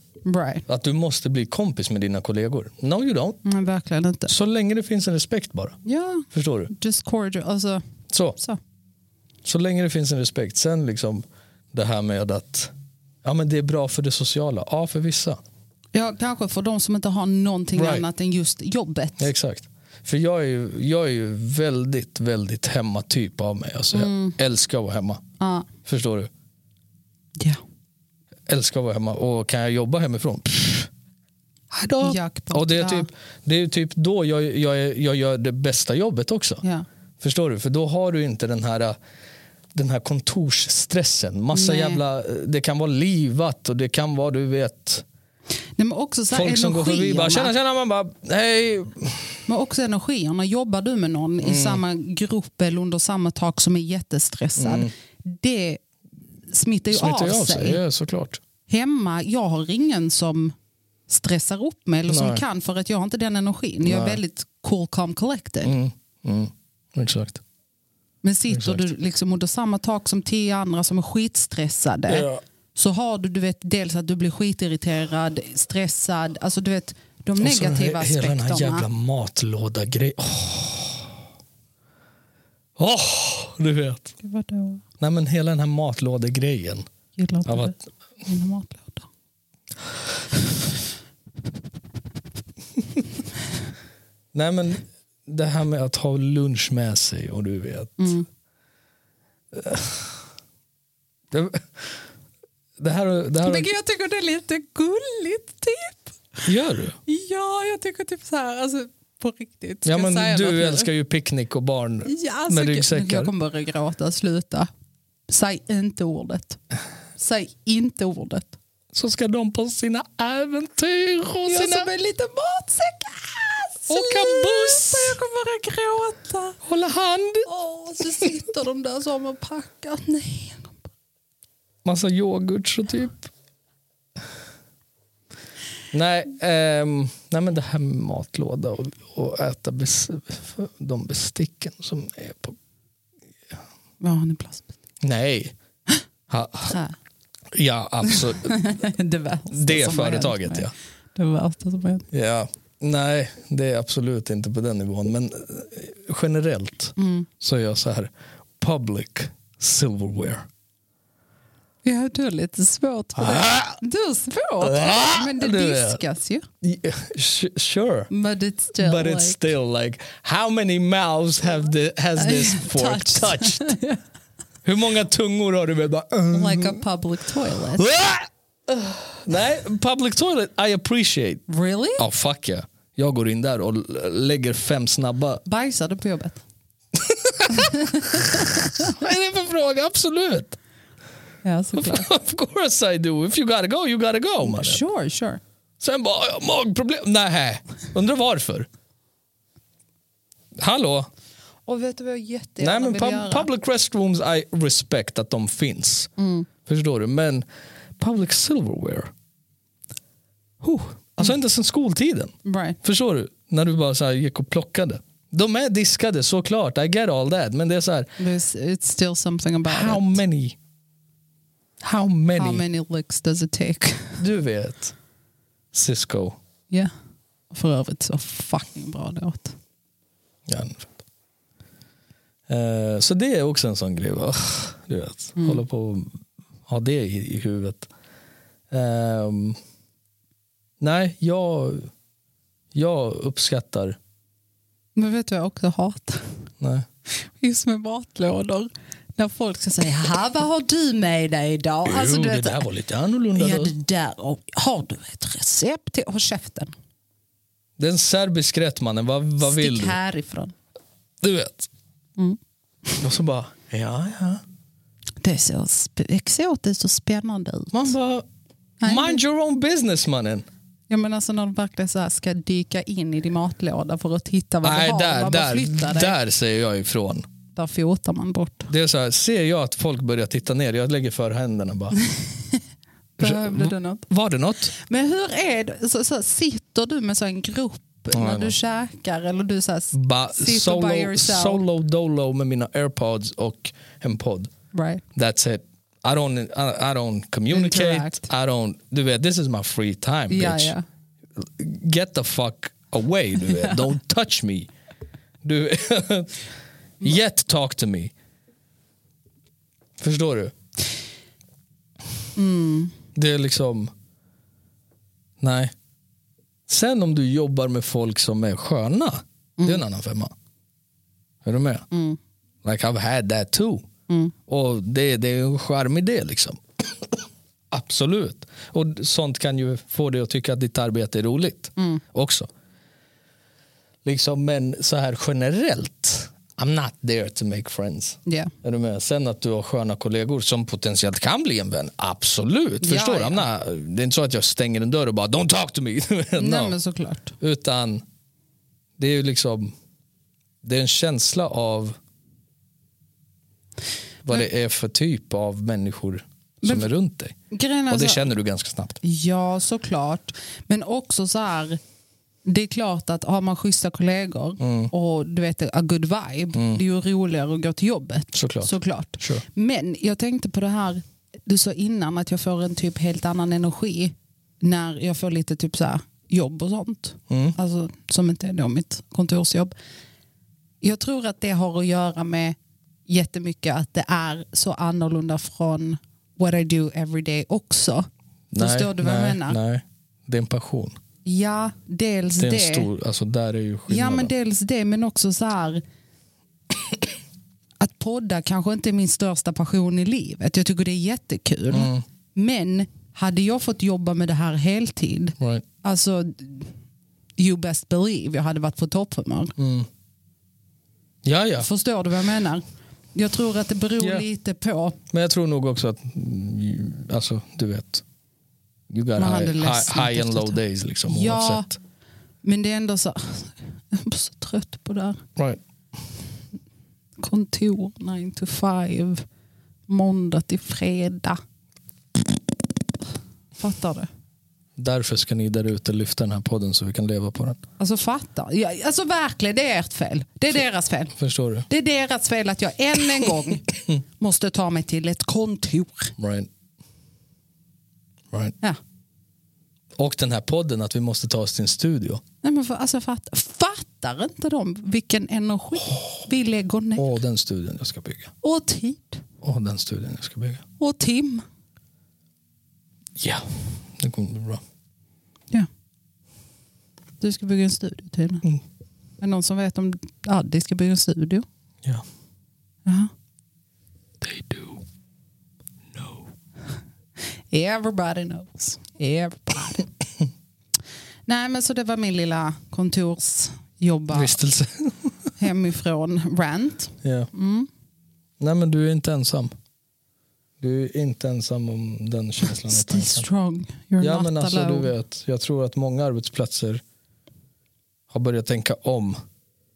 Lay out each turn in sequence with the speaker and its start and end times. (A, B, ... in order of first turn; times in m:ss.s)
0:00.2-0:00.6 A
0:00.7-0:03.4 B
0:03.4-0:04.3 A
0:04.3-0:05.8 B
0:05.8-0:07.8 A
0:06.3-0:06.7 B
0:08.1-0:08.4 B
0:09.4-0:12.7 B
0:13.2-0:15.4 B
0:15.9-0:19.3 A
0:17.8-0:18.0 B
0:19.2-0:25.2 B
0:23.9-0:24.4 A
0:25.4-0:25.7 A
0:25.8-0:26.3 B
0:28.5-0:30.9 B
0:31.7-0:36.6 B
0:32.0-0:33.1 A
0:37.2-0:39.0 B
0:39.7-0:45.0 B
0:41.5-0:42.0 A
0:45.8-0:47.5 A
0:46.3-0:49.4 B
0:49.5-0:55.8 A
0:51.4-0:51.8 B
0:54.6-0:54.9 B
0:56.5-0:57.8 A
0:56.9-0:58.4 B
0:58.7-1:00.5 A
1:01.1-1:05.7 A
1:02.1-1:02.4 B
1:03.8-1:04.2 B
1:05.6-1:07.4 B
1:08.2-1:18.9 A
1:08.5-1:08.8 B
1:12.1-1:12.4 B
1:17.4-1:21.1 B
1:22.8-1:24.1 B
1:24.2-1:24.8 A
1:25.0-1:26.8 B
1:27.2-1:29.1 A
1:27.5-1:27.7 B
1:34.3-1:38.1 B
1:38.0-1:38.2 A
1:39.5-1:40.2 B
1:41.3-1:42.0 B
1:42.8-1:43.7 B
1:43.4-1:46.5 A
1:46.4-1:47.0 B
1:47.1-1:50.9 A
1:49.8-1:53.3 B
1:52.0-1:54.7 A
1:55.3-1:56.6 A
1:57.2-1:58.6 A
1:58.9-2:01.9 B
2:01.4-2:06.6 A
2:03.9-2:05.2 B
2:06.6-2:07.5 B
2:07.4-2:10.8 A
2:11.8-2:13.3 B
2:15.9-2:22.6 B
2:24.0-2:24.7 A
2:25.0-2:25.5 B
2:26.3-2:26.8 B
2:26.7-2:27.0 A
2:27.5-2:28.5 B
2:28.0-2:32.1 A
2:29.5-2:30.7 B
2:32.1-2:40.4 B
2:37.0-2:37.3 A
2:41.8-2:46.5 A
2:43.2-2:43.8 B
2:44.6-2:46.0 B
2:46.6-2:48.1 B
2:48.1-2:49.4 A
2:48.8-2:53.7 B
2:52.2-2:54.0 A
2:54.6-2:56.8 B
2:56.3-2:57.8 A
2:57.8-3:01.4 B
3:01.5-3:02.0 A
3:02.0-3:05.4 B
3:05.4-3:06.4 A
3:06.9-3:10.6 B
3:07.5-3:08.9 A
3:11.4-3:12.1 A
3:11.8-3:14.8 B
3:14.4-3:15.4 A
3:15.8-3:18.7 B
3:20.6-3:21.1 B
3:21.7-3:23.5 A
3:22.6-3:26.1 B
3:26.2-3:26.5 A
3:26.6-3:27.4 B
3:28.0-3:29.1 B
3:30.6-3:38.1 B
3:32.4-3:32.8 A
3:38.2-3:40.2 A
3:39.6-3:40.6 B
3:41.8-3:42.6 B
3:42.3-3:44.2 A
3:44.2-3:44.9 B
3:45.7-3:46.4 B
3:47.5-3:49.6 A
3:50.5-3:50.9 B
3:52.5-3:57.9 B
3:55.4-3:55.6 A
3:58.7-3:59.6 B
4:00.8-4:01.9 B
4:02.7-4:04.0 B
4:05.0-4:06.2 A
4:06.6-4:06.8 B
4:07.1-4:12.6 A
4:11.8-4:13.7 B
4:13.3-4:16.7 A
4:17.8-4:20.0 B
4:19.4-4:20.5 A
4:21.2-4:21.7 B
4:22.2-4:23.0 A
4:23.0-4:24.4 B
4:25.2-4:27.9 A
4:27.7-4:28.2 B
4:28.8-4:29.2 A
4:28.8-4:30.5 B
4:30.9-4:36.2 A
4:34.6-4:37.2 B
4:37.5-4:38.7 A
4:38.7-4:42.0 B
4:42.0-4:42.6 A
4:43.2-4:44.1 A
4:43.2-4:44.7 B
4:44.7-4:51.6 A
4:48.1-4:48.5 B
4:49.9-4:54.5 B
4:54.7-4:55.0 A
4:55.1-5:00.7 B
4:57.5-4:58.3 A
5:00.3-5:00.8 A
5:01.4-5:04.7 B
5:03.5-5:03.8 A
5:05.4-5:06.4 B
5:07.0-5:08.1 B
5:10.0-5:10.5 B
5:12.4-5:12.9 A
5:13.1-5:13.9 B
5:15.4-5:15.7 B
5:16.7-5:20.3 B
5:21.4-5:21.9 B
5:21.9-5:22.2 A
5:22.6-5:23.8 B
5:24.1-5:24.3 A
5:24.5-5:32.5 B
5:31.8-5:32.0 A
5:34.0-5:46.8 B
5:38.2-5:38.5 A
5:42.8-5:43.5 A
5:46.4-5:47.3 A
5:47.4-5:48.0 B
5:49.0-5:49.7 B
5:50.6-5:52.0 B
5:54.2-5:57.4 B
5:56.6-5:56.9 A
5:57.5-5:58.2 A
5:57.9-5:59.0 B
5:59.0-6:01.8 A
6:02.4-6:19.7 A
6:04.6-6:04.9 B
6:06.5-6:06.8 B
6:08.3-6:09.4 B
6:17.3-6:17.6 B
6:20.8-6:22.6 A
6:23.1-6:28.1 A
6:28.5-6:31.0 B
6:28.6-6:29.6 A
6:31.2-6:32.9 A
6:32.4-6:34.3 B
6:33.9-6:35.8 A
6:37.8-6:46.7 A
6:41.7-6:42.0 B
6:45.4-6:45.6 B
6:47.4-6:49.5 A
6:49.6-6:49.9 B
6:51.2-6:51.7 B
6:51.6-6:55.0 A
6:54.0-6:54.2 B
6:55.1-6:58.0 B
6:58.9-7:01.7 B
6:59.2-7:01.7 A
7:02.4-7:05.2 A
7:07.2-7:09.2 A
7:09.9-7:11.4 A
7:13.6-7:14.1 A
7:14.8-7:17.6 B
7:17.8-7:21.2 A
7:21.2-7:21.7 B
7:21.7-7:26.1 A
7:26.2-7:26.5 B
7:30.0-7:32.2 B
7:32.4-7:37.0 A
7:37.0-7:38.3 B
7:38.4-7:39.2 A
7:39.4-7:40.6 B
7:40.8-7:41.4 A
7:43.2-7:44.6 B
7:47.2-7:48.5 A
7:49.2-7:51.4 A
7:52.8-7:53.1 A
7:54.2-7:54.8 B
7:55.9-7:56.2 B
7:57.5-7:59.9 A
8:01.3-8:04.4 A
8:04.1-8:05.1 B
8:05.4-8:07.7 A
8:07.0-8:07.3 B
8:08.4-8:09.5 B
8:10.6-8:13.3 B
8:12.6-8:14.9 A
8:14.0-8:16.8 B
8:18.1-8:19.2 B